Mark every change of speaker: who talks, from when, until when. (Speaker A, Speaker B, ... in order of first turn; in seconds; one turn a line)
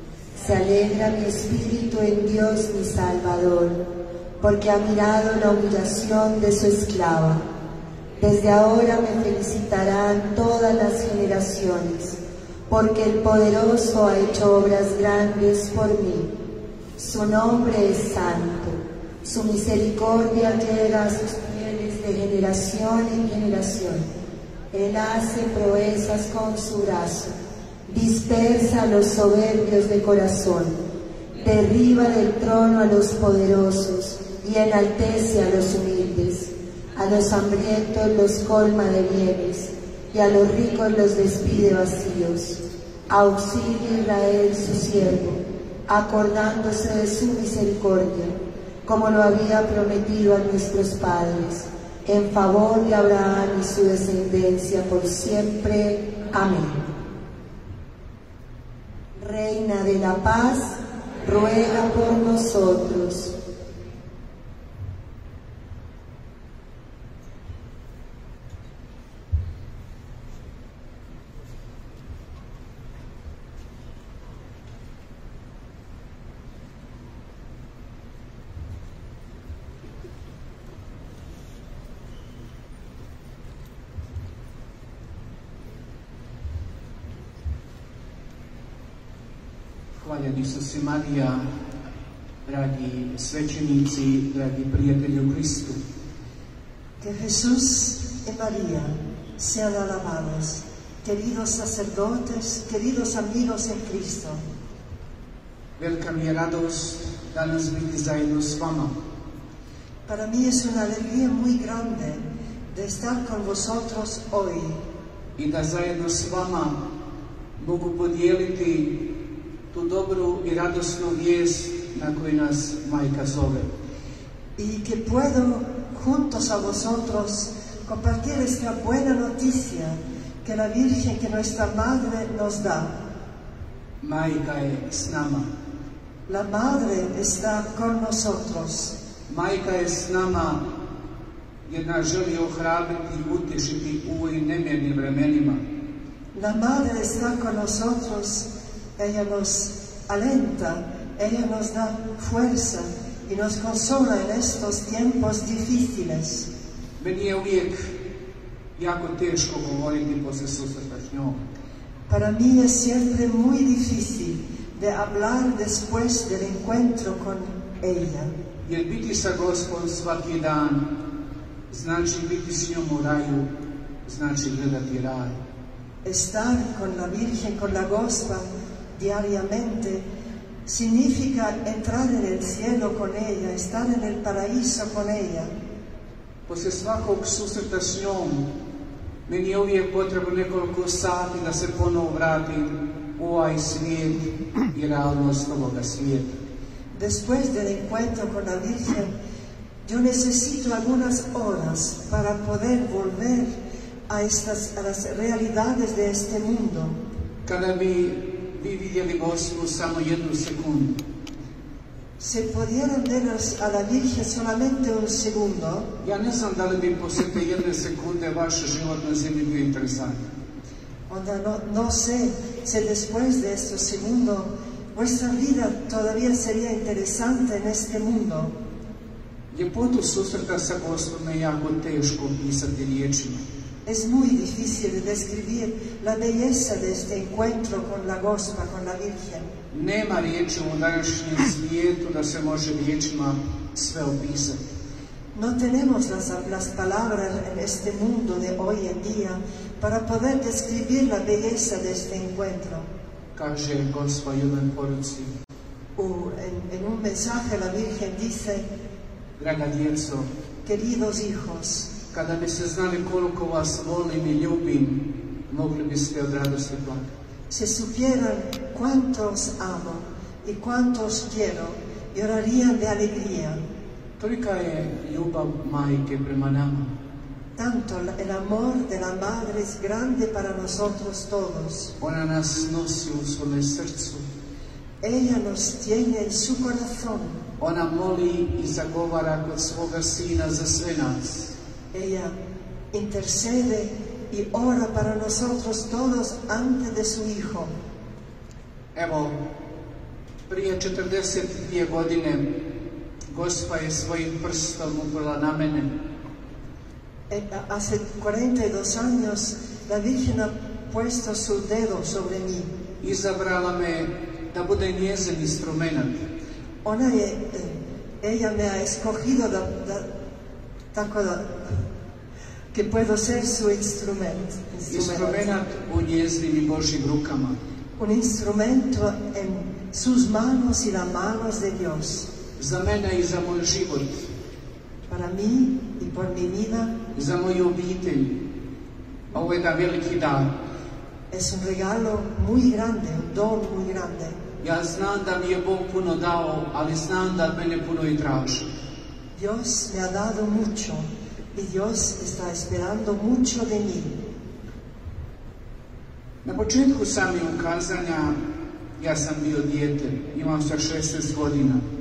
Speaker A: 0.4-3.8
Speaker A: 4.4-7.4
Speaker A: 8.2-16.3
Speaker A: 17.0-24.1
Speaker A: 24.7-27.3
Speaker A: 27.9-30.8
Speaker A: 31.4-56.9
Speaker A: 59.1-63.3
Speaker B: 90.0-91.5
Speaker B: 92.5-95.8
Speaker C: 97.0-104.4
Speaker B: 105.8-108.9
Speaker C: 110.1-114.8
Speaker B: 115.4-116.8
Speaker B: 117.6-119.1
Speaker B: 119.7-123.7
Speaker C: 124.6-133.0
Speaker B: 134.0-135.5
Speaker C: 136.3-138.9
Speaker B: 139.3-140.7
Speaker B: 141.7-145.6
Speaker C: 146.3-156.5
Speaker B: 157.0-158.0
Speaker B: 158.8-161.4
Speaker C: 162.1-168.3
Speaker B: 168.6-170.9
Speaker B: 171.7-173.5
Speaker B: 174.0-175.4
Speaker C: 176.0-180.1
Speaker C: 180.7-185.5
Speaker B: 186.5-188.5
Speaker B: 189.3-196.4
Speaker C: 196.9-199.1
Speaker C: 199.8-203.6
Speaker C: 204.1-207.0
Speaker B: 207.4-211.0
Speaker C: 212.2-215.9
Speaker B: 216.0-220.2
Speaker C: 221.1-228.5
Speaker B: 229.5-233.4
Speaker C: 233.8-239.5
Speaker B: 239.7-244.6
Speaker C: 245.3-252.9
Speaker B: 253.3-255.3
Speaker C: 256.0-258.7
Speaker B: 259.4-260.3
Speaker C: 260.6-261.9
Speaker B: 262.1-267.1
Speaker C: 267.5-273.6
Speaker B: 274.2-276.9
Speaker C: 277.6-281.9
Speaker B: 282.0-284.2
Speaker C: 285.0-287.4
Speaker B: 287.6-291.5
Speaker C: 291.9-292.4
Speaker C: 292.9-297.7
Speaker B: 298.9-299.4
Speaker B: 300.5-302.5
Speaker B: 303.3-305.9
Speaker C: 307.3-312.7
Speaker B: 313.0-316.2
Speaker C: 316.8-320.1
Speaker C: 320.9-321.8
Speaker C: 322.7-325.5
Speaker B: 324.9-327.6
Speaker C: 328.0-332.3
Speaker B: 332.6-334.3
Speaker C: 335.1-337.0
Speaker B: 337.1-338.4
Speaker B: 339.3-340.5
Speaker C: 341.3-344.4
Speaker B: 344.6-348.7
Speaker C: 349.3-354.1
Speaker B: 356.4-358.4
Speaker B: 359.0-361.8